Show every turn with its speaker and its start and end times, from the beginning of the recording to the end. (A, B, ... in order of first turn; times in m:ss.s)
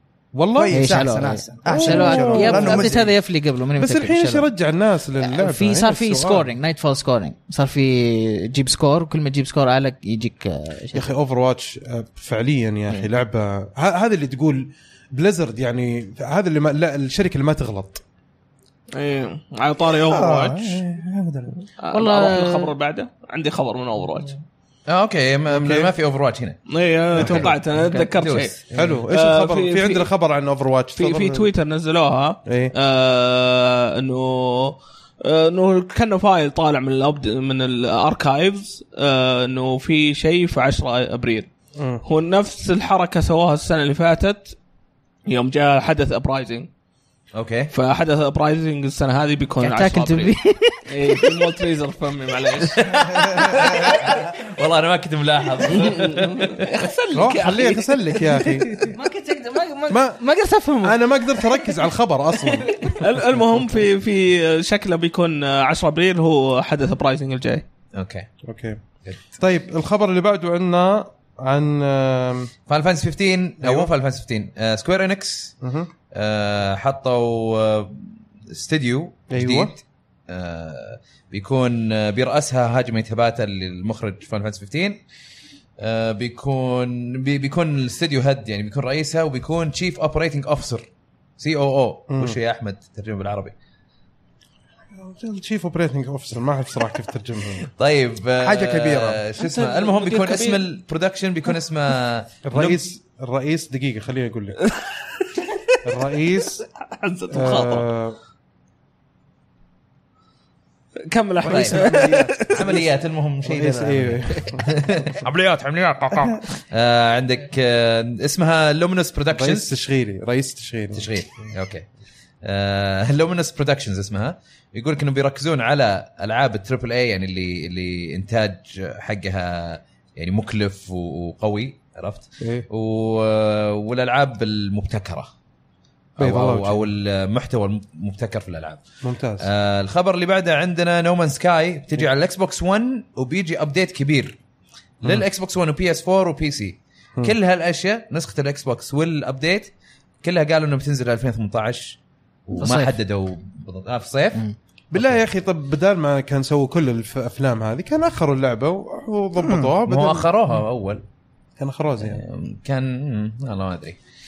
0:00.3-0:01.0 A
0:00.5-0:03.0 B
0:00.7-0:04.5 C
0:01.7-0:03.0 A
0:03.8-0:06.5 A
0:05.2-0:11.1 C
0:10.9-0:18.0 A
0:18.9-0:20.8 D
0:20.0-0:21.6 B
0:21.8-0:24.3 D
0:21.9-0:22.7 C
0:24.9-0:26.6 E
0:25.5-0:25.9 A
0:26.7-0:30.1 D
0:27.2-0:28.9 E
0:27.2-0:27.5 A
0:28.7-0:31.5 A
0:31.0-0:41.5 D
0:32.4-0:32.7 A
0:41.8-0:42.0 A
0:42.0-0:44.6 D
0:45.2-0:46.7 D
0:47.3-0:47.7 E
0:47.7-0:50.3 D
0:49.6-0:51.3 C
0:50.9-0:52.8 D
0:52.8-0:56.8 E
0:53.5-0:53.9 C
0:55.7-0:58.8 D
0:57.1-0:58.9 A
0:58.8-1:01.7 C
0:59.9-1:03.4 A
1:02.8-1:07.6 D
1:07.9-1:08.3 E
1:08.4-1:08.8 A
1:09.4-1:12.5 A
1:12.7-1:15.5 E
1:13.6-1:13.9 A
1:15.6-1:15.9 A
1:16.1-1:25.0 E
1:19.3-1:19.7 A
1:25.8-1:33.5 E
1:32.1-1:32.4 A
1:34.9-1:37.6 A
1:37.6-1:42.8 E
1:38.4-1:39.2 B
1:39.4-1:40.6 D
1:42.4-1:44.6 A
1:44.6-1:45.8 D
1:45.8-1:46.6 A
1:46.6-1:47.9 D
1:47.3-1:48.2 A
1:51.0-1:52.6 D
1:51.4-1:52.3 B
1:51.4-1:51.9 E
1:51.8-1:52.8 A
1:52.5-1:59.8 E
1:53.4-1:54.8 A
1:59.3-2:01.1 A
2:00.9-2:01.9 E
2:02.4-2:15.3 E
2:12.4-2:12.7 A
2:16.2-2:16.8 A
2:16.2-2:18.8 E
2:19.0-2:19.5 A
2:19.4-2:24.4 E
2:25.0-2:29.7 E
2:30.2-2:34.4 E
2:32.6-2:33.0 C
2:34.9-2:40.3 A
2:34.9-2:35.2 E
2:39.4-2:39.7 B
2:39.8-2:41.0 E
2:41.6-2:42.2 A
2:42.0-2:44.0 E